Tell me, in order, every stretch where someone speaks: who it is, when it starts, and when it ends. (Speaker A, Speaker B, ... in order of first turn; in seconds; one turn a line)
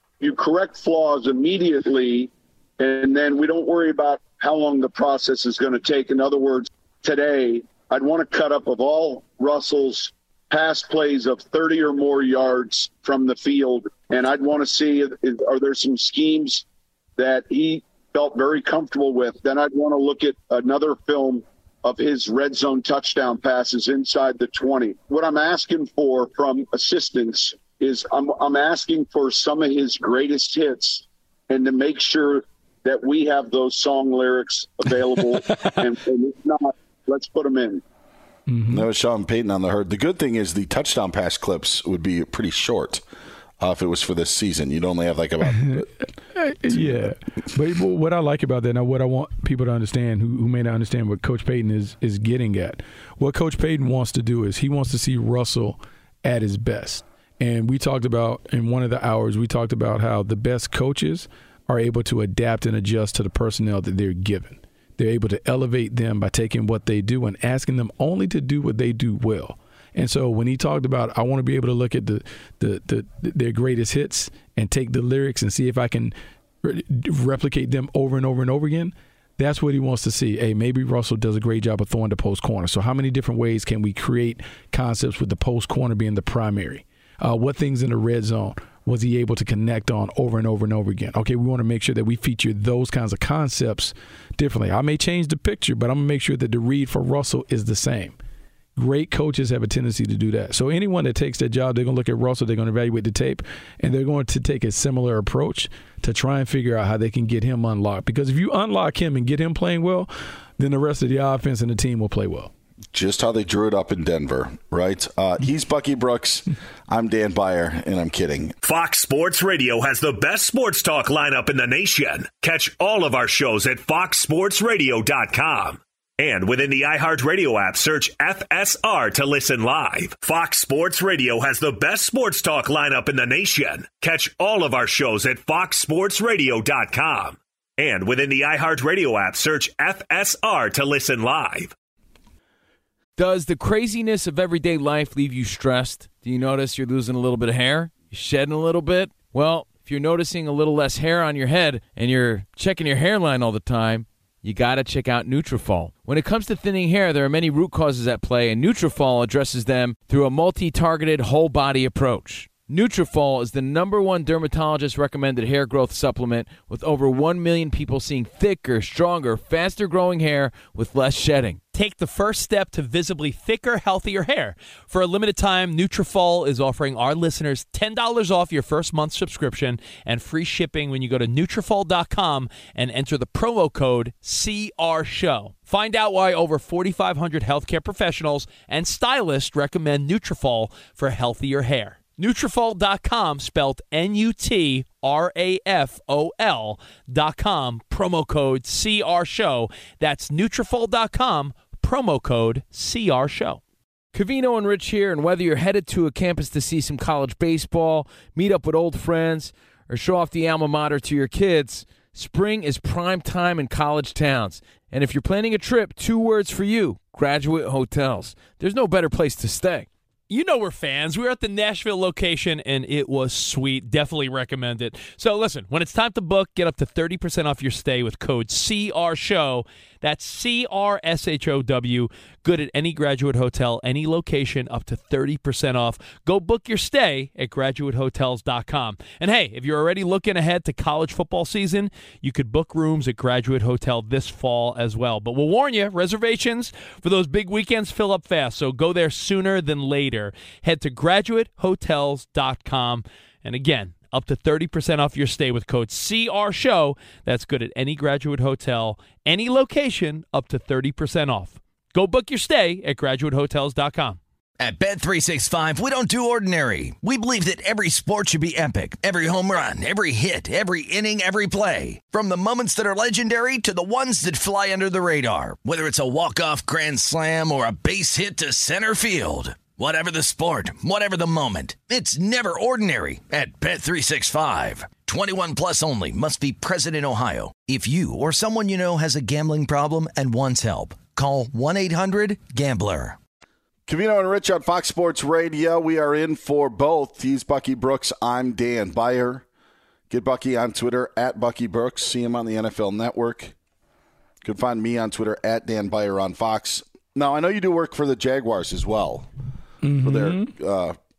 Speaker A: 0.2-16.6
Speaker A: 17.2-37.8
Speaker B: 38.5-38.9
Speaker C: 38.7-43.0
Speaker C: 43.6-45.9
Speaker B: 45.5-45.8
Speaker B: 46.3-98.2
Speaker C: 46.7-47.1
Speaker B: 98.8-112.5
Speaker C: 112.9-118.5
Speaker D: 118.6-141.7
Speaker E: 143.2-171.6
Speaker F: 171.7-203.6
Speaker E: 204.1-219.9
Speaker F: 220.3-264.2
Speaker G: 264.6-293.2
Speaker C: 293.9-299.4
Speaker C: 300.1-303.5
Speaker C: 304.4-309.3
Speaker B: 309.8-310.5
Speaker C: 310.0-310.9